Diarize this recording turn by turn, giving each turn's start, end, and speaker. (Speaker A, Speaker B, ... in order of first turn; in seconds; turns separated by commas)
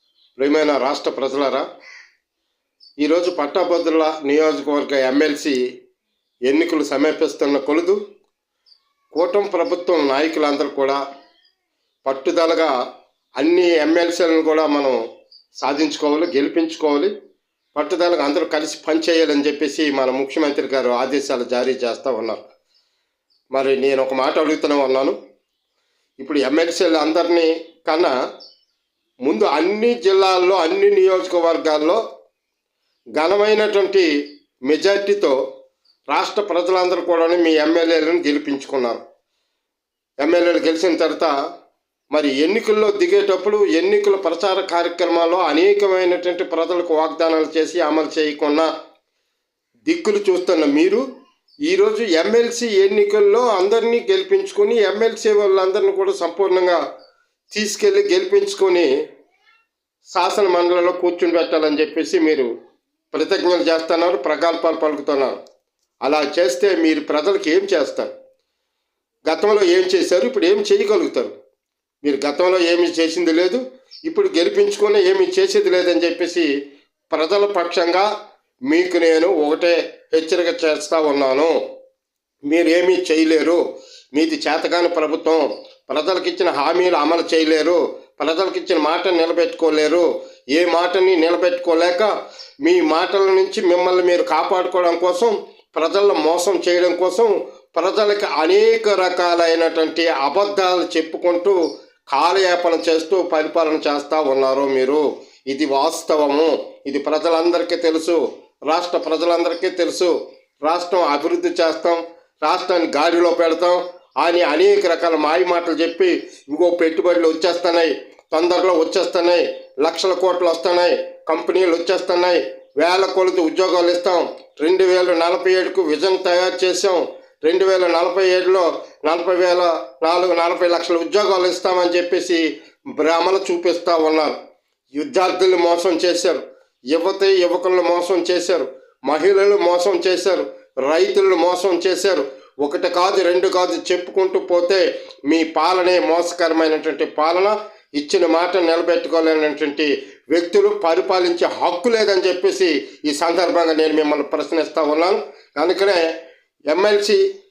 Speaker A: 0.4-1.7, Speaker A: 3.0-5.6, Speaker A: 6.5-8.0, Speaker A: 9.1-11.0, Speaker A: 12.1-12.7, Speaker A: 13.4-15.0, Speaker A: 15.6-17.1, Speaker A: 17.8-22.4, Speaker A: 23.5-25.1, Speaker A: 26.2-28.1, Speaker A: 29.2-32.0, Speaker A: 33.2-34.1, Speaker A: 34.7-35.4, Speaker A: 36.1-39.0, Speaker A: 40.2-41.3, Speaker A: 42.1-48.7, Speaker A: 49.9-51.0, Speaker A: 51.7-56.8, Speaker A: 57.5-58.9, Speaker A: 60.1-62.5, Speaker A: 63.1-65.4, Speaker A: 66.0-68.1, Speaker A: 69.3-71.3, Speaker A: 72.0-76.5, Speaker A: 77.1-78.1, Speaker A: 78.7-81.5, Speaker A: 82.5-83.6, Speaker A: 84.1-92.1, Speaker A: 92.6-110.1, Speaker A: 110.6-132.4, Speaker A: 133.0-134.4, Speaker A: 134.9-136.4, Speaker A: 136.9-156.1, Speaker A: 156.7-157.2